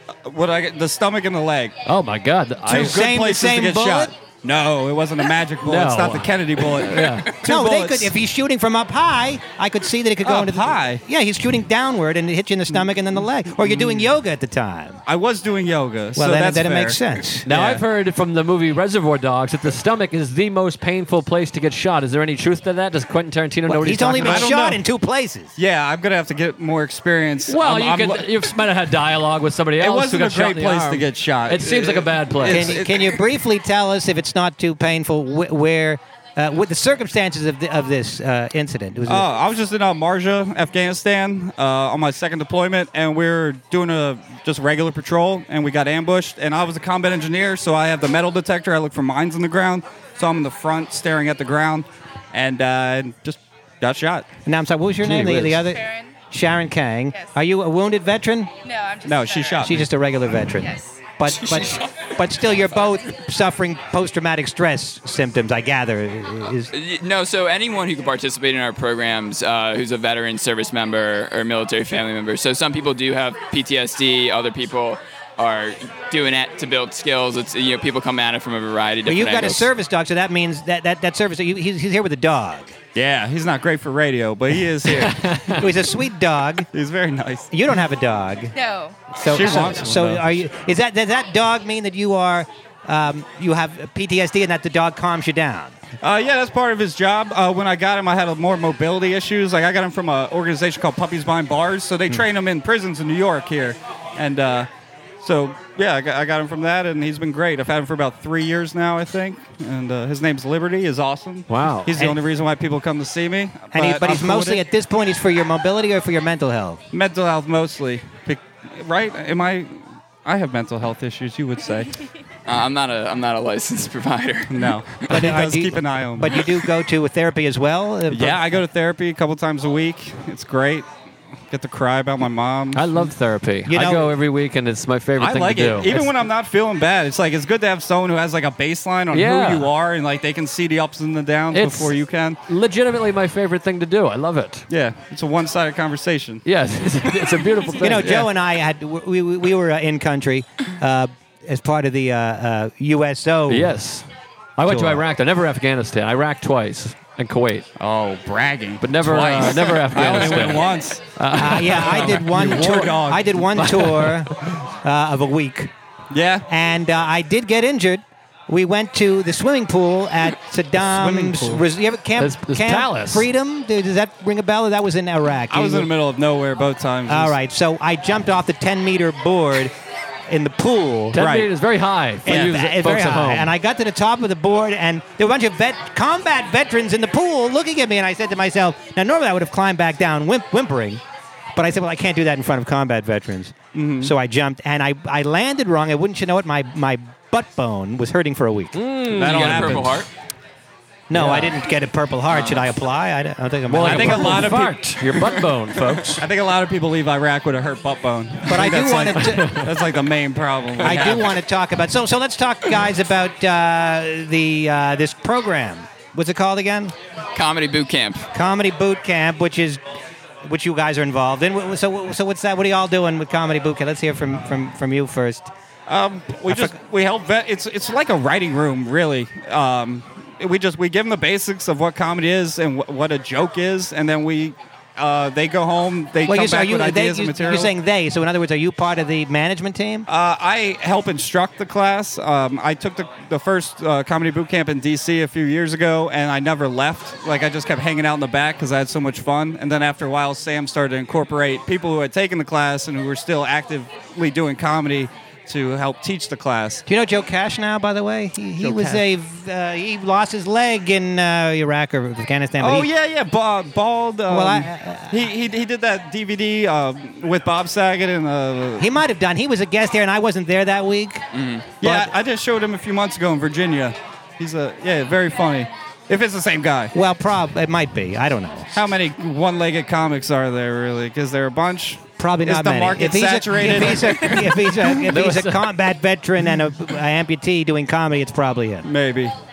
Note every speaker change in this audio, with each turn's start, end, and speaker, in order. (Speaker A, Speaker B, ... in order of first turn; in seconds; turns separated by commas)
Speaker A: 0.2-1.8, Speaker B: 1.9-3.0, Speaker C: 2.7-4.1, Speaker A: 2.7-8.1, Speaker B: 5.6-7.3, Speaker C: 7.4-15.0, Speaker A: 10.2-11.0, Speaker A: 13.6-14.1, Speaker A: 15.1-17.0, Speaker C: 16.2-17.5, Speaker B: 17.5-24.6, Speaker A: 17.5-17.8, Speaker C: 23.7-25.5, Speaker A: 24.2-24.8, Speaker A: 25.6-28.4, Speaker B: 27.5-32.8, Speaker A: 29.8-33.2, Speaker C: 32.5-39.3, Speaker A: 39.1-54.3, Speaker C: 54.5-58.5, Speaker B: 55.0-55.6, Speaker D: 55.6-56.2, Speaker D: 58.6-59.7, Speaker A: 59.0-59.9, Speaker C: 59.6-66.7, Speaker D: 60.6-61.0, Speaker E: 61.3-62.1, Speaker E: 66.7-79.7, Speaker C: 79.1-82.8, Speaker A: 83.0-85.7, Speaker B: 84.9-85.6, Speaker C: 85.5-86.7, Speaker A: 86.7-87.5, Speaker C: 87.5-88.5, Speaker D: 88.5-89.0, Speaker C: 89.2-95.8, Speaker A: 89.2-90.3, Speaker A: 96.0-104.7, Speaker A: 105.2-114.6, Speaker B: 111.5-111.9, Speaker C: 113.7-116.8, Speaker A: 116.9-122.0, Speaker E: 122.5-124.7, Speaker A: 124.5-126.5, Speaker C: 125.1-128.6, Speaker A: 128.1-130.9, Speaker A: 131.5-133.0, Speaker B: 132.7-136.1, Speaker C: 133.7-134.1, Speaker A: 135.2-142.4, Speaker B: 139.1-139.7, Speaker B: 141.5-141.9, Speaker B: 142.5-144.7, Speaker A: 144.7-146.4, Speaker B: 146.4-148.1, Speaker C: 147.8-153.7, Speaker A: 148.0-148.3, Speaker B: 153.5-154.1, Speaker B: 154.6-157.7, Speaker C: 154.7-155.1, Speaker A: 157.8-161.0, Speaker B: 158.8-162.8, Speaker C: 161.3-165.7, Speaker A: 161.7-163.5, Speaker B: 163.6-164.3, Speaker A: 166.1-166.5, Speaker C: 166.5-175.9, Speaker A: 170.9-171.6, Speaker B: 172.2-173.3, Speaker A: 175.5-177.3, Speaker C: 177.1-179.7, Speaker C: 180.3-181.2, Speaker B: 181.1-183.5, Speaker A: 181.2-181.5, Speaker C: 182.3-191.0, Speaker C: 191.6-198.8, Speaker A: 193.7-194.1, Speaker B: 198.8-200.0, Speaker A: 199.1-200.0, Speaker E: 199.2-200.1, Speaker C: 201.1-204.6, Speaker B: 201.1-201.5, Speaker B: 203.7-206.2, Speaker A: 203.8-205.4, Speaker A: 206.1-211.3, Speaker C: 208.5-209.6, Speaker B: 209.2-209.7, Speaker C: 210.8-216.9, Speaker E: 217.3-218.3, Speaker C: 218.3-219.8, Speaker C: 220.4-225.5, Speaker A: 225.9-237.7, Speaker C: 226.5-226.7, Speaker C: 236.3-240.1, Speaker A: 240.1-256.9, Speaker C: 256.9-262.9, Speaker A: 258.6-259.0, Speaker A: 262.6-268.9, Speaker C: 264.3-265.2, Speaker C: 268.8-271.2, Speaker E: 271.3-271.7, Speaker A: 271.8-276.9, Speaker C: 271.8-272.1, Speaker C: 276.9-278.7, Speaker A: 278.7-284.9, Speaker C: 282.2-288.9, Speaker B: 284.9-285.7, Speaker A: 288.8-289.3